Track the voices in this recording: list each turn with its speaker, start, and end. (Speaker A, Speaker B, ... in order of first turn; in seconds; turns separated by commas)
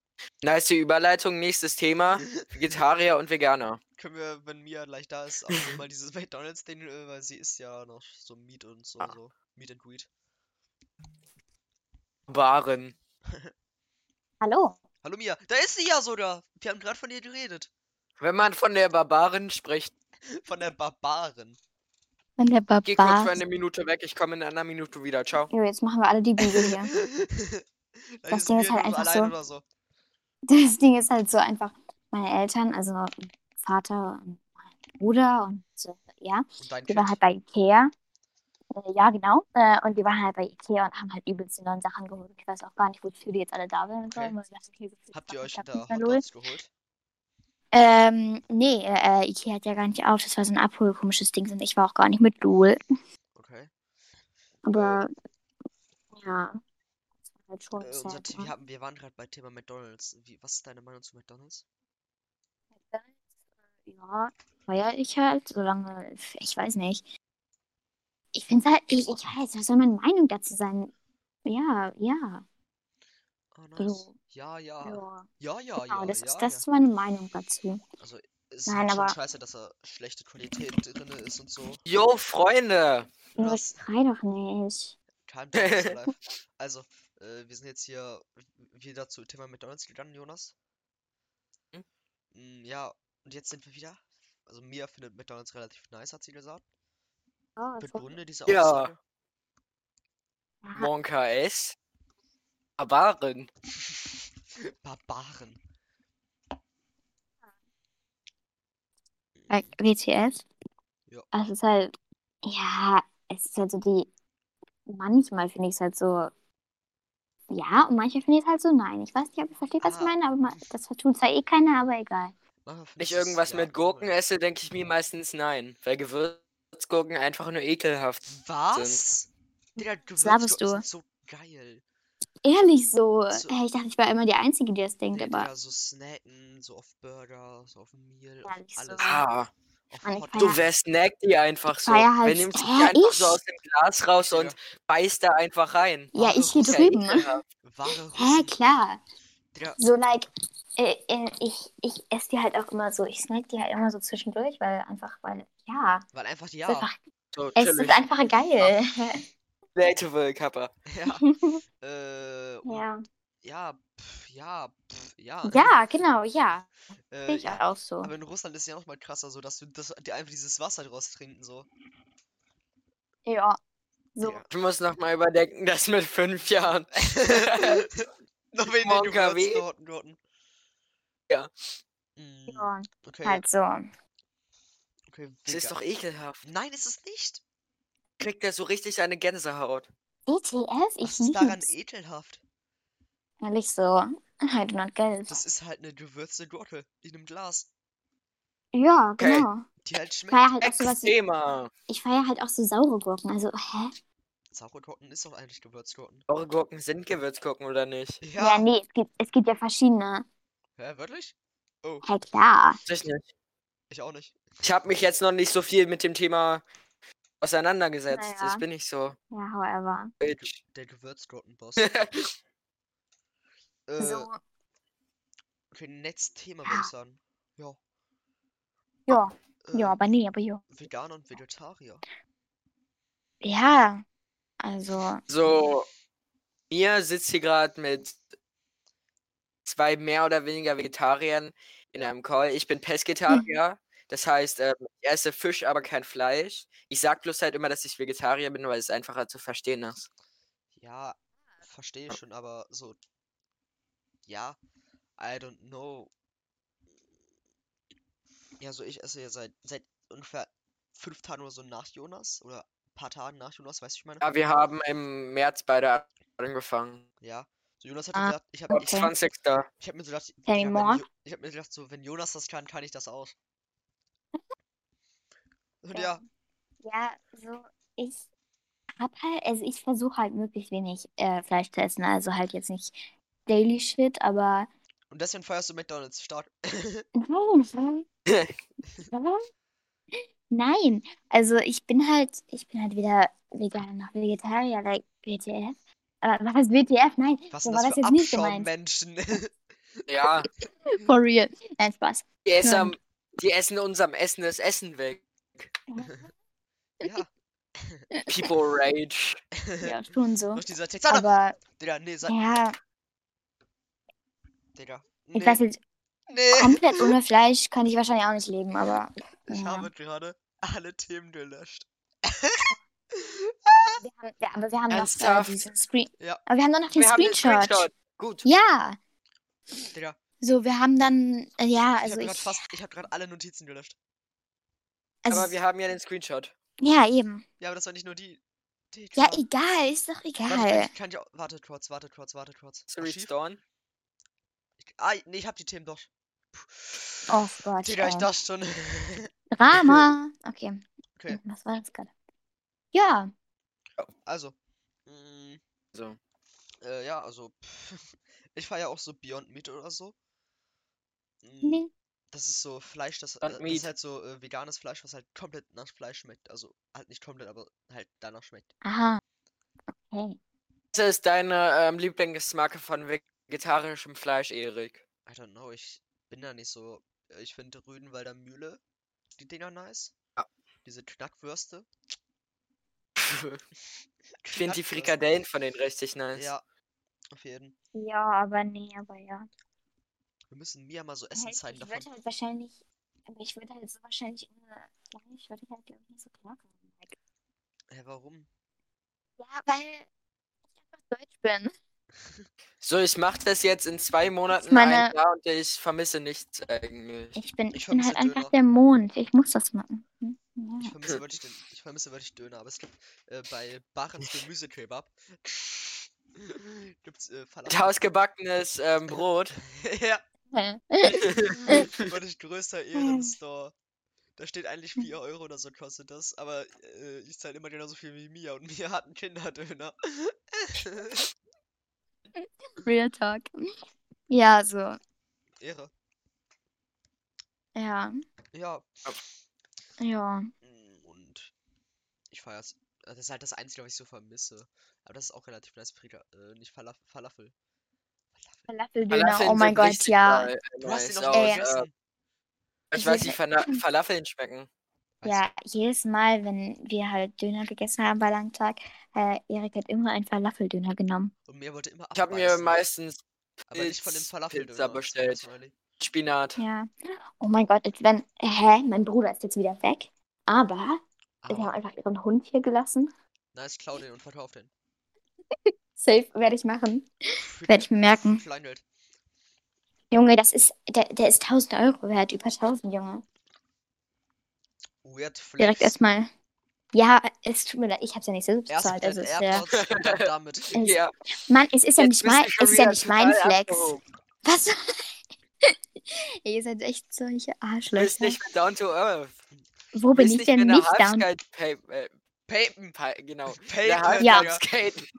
Speaker A: 0.4-3.8, Speaker B: 2.4-2.8, Speaker B: 4.0-10.1, Speaker A: 12.3-13.0, Speaker B: 13.3-13.5, Speaker C: 14.4-14.8, Speaker B: 15.0-17.7, Speaker A: 18.2-19.9, Speaker B: 20.3-21.6, Speaker C: 22.4-23.3, Speaker A: 22.9-25.5, Speaker C: 25.5-26.9, Speaker B: 26.9-27.6, Speaker B: 28.2-29.6, Speaker C: 28.3-29.3, Speaker C: 30.5-37.9, Speaker B: 36.6-37.2, Speaker C: 38.7-46.2, Speaker B: 45.1-46.7, Speaker C: 47.7-52.8, Speaker B: 53.4-53.7, Speaker C: 54.6-55.1, Speaker B: 54.7-55.0, Speaker C: 56.1-56.6, Speaker C: 57.5-58.5, Speaker B: 57.8-61.6, Speaker C: 62.8-63.1, Speaker C: 63.9-67.0, Speaker C: 68.3-70.9, Speaker C: 71.5-72.4, Speaker B: 73.5-76.7, Speaker C: 73.8-74.2, Speaker C: 74.8-75.3, Speaker C: 75.9-77.8, Speaker B: 78.0-81.8, Speaker C: 78.7-79.2, Speaker A: 81.9-83.1, Speaker B: 83.3-83.8, Speaker C: 83.4-85.0, Speaker B: 85.3-90.5, Speaker A: 85.6-86.0, Speaker B: 92.3-96.6, Speaker C: 97.6-98.1, Speaker B: 97.8-99.0, Speaker A: 98.5-98.9, Speaker C: 100.6-100.9, Speaker A: 100.8-101.8, Speaker A: 102.8-103.5, Speaker B: 103.8-105.6, Speaker B: 109.4-109.8, Speaker C: 109.5-110.4, Speaker C: 111.3-111.9, Speaker C: 112.4-114.1, Speaker C: 114.9-116.3, Speaker C: 117.5-122.3, Speaker B: 119.8-120.2, Speaker B: 122.7-124.2, Speaker A: 123.0-129.0, Speaker B: 128.3-131.8, Speaker C: 129.8-130.8, Speaker C: 132.4-135.5, Speaker B: 135.1-139.2, Speaker C: 138.4-139.2, Speaker A: 139.0-139.5, Speaker B: 139.9-140.6, Speaker C: 140.0-140.6, Speaker A: 140.4-147.4, Speaker C: 141.9-143.4, Speaker B: 144.2-144.6, Speaker C: 146.1-147.4, Speaker B: 146.2-147.0, Speaker B: 147.6-148.6, Speaker C: 148.1-149.0, Speaker B: 149.5-149.8, Speaker C: 149.8-156.1, Speaker B: 156.1-156.9, Speaker C: 156.7-157.0, Speaker A: 157.3-158.1, Speaker C: 157.6-159.2, Speaker A: 159.8-160.7, Speaker B: 160.9-161.2, Speaker C: 161.2-161.6, Speaker B: 161.8-162.8, Speaker C: 162.7-163.0, Speaker B: 163.4-165.8, Speaker C: 165.4-166.7, Speaker B: 167.1-171.7, Speaker C: 167.3-168.1, Speaker C: 173.3-173.6, Speaker C: 174.2-174.4, Speaker A: 174.5-177.8, Speaker B: 176.9-180.2, Speaker A: 178.6-179.6, Speaker B: 182.2-183.4, Speaker C: 182.5-183.9, Speaker B: 185.1-185.8, Speaker A: 185.5-186.4, Speaker B: 186.4-187.4, Speaker A: 188.2-189.9, Speaker C: 190.3-191.7, Speaker B: 191.0-192.4, Speaker C: 193.4-195.4, Speaker B: 195.3-197.7, Speaker C: 198.7-199.7, Speaker A: 199.2-199.5, Speaker B: 199.8-200.5, Speaker C: 200.3-201.2, Speaker A: 200.6-201.7, Speaker C: 201.9-203.9, Speaker B: 204.5-206.3, Speaker A: 206.3-208.2, Speaker B: 208.2-208.7, Speaker C: 208.4-210.2, Speaker B: 210.8-212.1, Speaker C: 212.0-212.8, Speaker A: 212.8-213.3, Speaker B: 213.9-214.4, Speaker A: 214.6-216.6, Speaker A: 217.4-219.2, Speaker C: 218.1-218.6, Speaker C: 219.3-220.1, Speaker A: 220.2-220.6, Speaker B: 220.4-221.9, Speaker A: 221.8-222.3, Speaker B: 223.9-224.3, Speaker C: 224.0-224.4, Speaker B: 225.7-227.8, Speaker C: 229.1-230.7, Speaker B: 229.6-230.0, Speaker B: 230.7-232.0, Speaker C: 233.4-234.0, Speaker C: 234.6-235.2, Speaker A: 235.3-235.9, Speaker A: 236.7-238.2, Speaker A: 239.7-250.1, Speaker C: 243.3-243.6, Speaker B: 250.8-253.0, Speaker B: 254.3-254.6, Speaker B: 255.2-256.1, Speaker B: 258.6-264.3, Speaker A: 264.2-267.1, Speaker B: 267.2-269.1, Speaker C: 268.1-269.1, Speaker A: 268.7-269.7, Speaker B: 269.8-273.4, Speaker C: 270.5-271.1, Speaker B: 275.8-276.2, Speaker C: 275.9-276.2, Speaker C: 276.8-278.2, Speaker C: 279.0-284.7, Speaker B: 285.1-287.1, Speaker C: 287.1-288.1, Speaker A: 288.3-288.6, Speaker C: 289.1-289.5, Speaker C: 290.1-298.7, Speaker B: 297.5-300.1, Speaker A: 300.1-300.5, Speaker C: 300.9-302.9, Speaker A: 302.5-305.7, Speaker C: 305.9-306.3, Speaker B: 306.0-306.3, Speaker B: 307.0-308.1, Speaker A: 308.3-309.4, Speaker B: 309.6-310.0, Speaker C: 309.8-311.6, Speaker B: 310.5-312.4, Speaker C: 312.3-312.8, Speaker B: 314.8-315.6, Speaker C: 315.4-315.8, Speaker B: 316.3-317.1, Speaker C: 316.5-319.9, Speaker B: 319.5-324.0, Speaker C: 324.0-327.9, Speaker A: 324.9-325.7, Speaker A: 326.9-328.4, Speaker C: 328.4-329.0, Speaker C: 330.4-332.6, Speaker B: 332.0-334.0, Speaker C: 335.2-335.6, Speaker A: 335.3-336.5, Speaker C: 336.8-337.4, Speaker B: 337.6-338.4, Speaker B: 338.9-339.4, Speaker C: 339.2-340.9, Speaker B: 340.4-343.3, Speaker A: 342.9-343.6, Speaker B: 344.8-347.3, Speaker C: 347.3-348.3, Speaker B: 347.8-349.3, Speaker C: 349.5-352.1, Speaker C: 352.9-353.3, Speaker B: 354.2-355.6, Speaker B: 356.8-360.2, Speaker B: 361.4-368.8, Speaker C: 361.6-361.9, Speaker A: 363.4-363.8, Speaker C: 368.8-369.2, Speaker C: 370.1-370.4, Speaker A: 370.9-375.0, Speaker B: 375.3-378.8, Speaker B: 379.4-380.1, Speaker B: 380.8-381.9, Speaker A: 383.2-383.6, Speaker B: 384.4-385.2, Speaker A: 384.5-386.5, Speaker B: 386.4-386.6, Speaker B: 387.3-387.8, Speaker C: 387.9-389.5, Speaker B: 390.5-392.1, Speaker C: 391.4-397.2, Speaker B: 397.9-398.5, Speaker C: 399.4-400.1, Speaker C: 400.9-401.7, Speaker A: 402.8-407.4, Speaker C: 404.6-405.1, Speaker C: 407.4-410.9, Speaker B: 407.7-408.5, Speaker B: 410.8-418.1, Speaker A: 417.7-419.6, Speaker B: 419.5-420.2, Speaker C: 420.5-421.9, Speaker A: 421.2-422.1, Speaker B: 421.4-423.8, Speaker C: 422.9-423.3, Speaker B: 424.4-431.3, Speaker C: 432.8-433.5, Speaker C: 434.3-435.0, Speaker B: 435.6-435.9, Speaker C: 437.8-438.2, Speaker B: 438.5-438.9, Speaker C: 440.0-440.5, Speaker B: 440.6-441.5, Speaker B: 442.3-447.5, Speaker B: 448.4-448.7, Speaker C: 448.7-450.5, Speaker A: 449.1-451.9, Speaker B: 450.8-451.9, Speaker C: 451.3-451.6, Speaker A: 452.9-454.7, Speaker C: 453.0-453.8, Speaker B: 455.2-455.5, Speaker C: 455.2-461.3, Speaker B: 461.5-462.8, Speaker A: 462.1-463.2, Speaker B: 463.7-465.8, Speaker A: 463.7-465.4, Speaker A: 466.0-466.6, Speaker C: 466.6-466.9, Speaker C: 467.4-473.1, Speaker B: 471.4-471.8, Speaker B: 473.5-474.7, Speaker C: 476.0-478.4, Speaker B: 477.4-478.8, Speaker C: 480.1-483.2, Speaker B: 485.0-485.9, Speaker C: 485.6-486.3, Speaker C: 486.9-489.6, Speaker B: 488.7-490.8, Speaker A: 489.7-491.1, Speaker C: 490.7-493.9, Speaker A: 492.0-494.0, Speaker C: 494.4-498.4, Speaker A: 497.9-499.3, Speaker C: 499.9-501.3, Speaker A: 500.1-502.1, Speaker B: 502.5-502.9, Speaker A: 502.7-505.1, Speaker B: 503.5-504.6, Speaker C: 504.2-504.5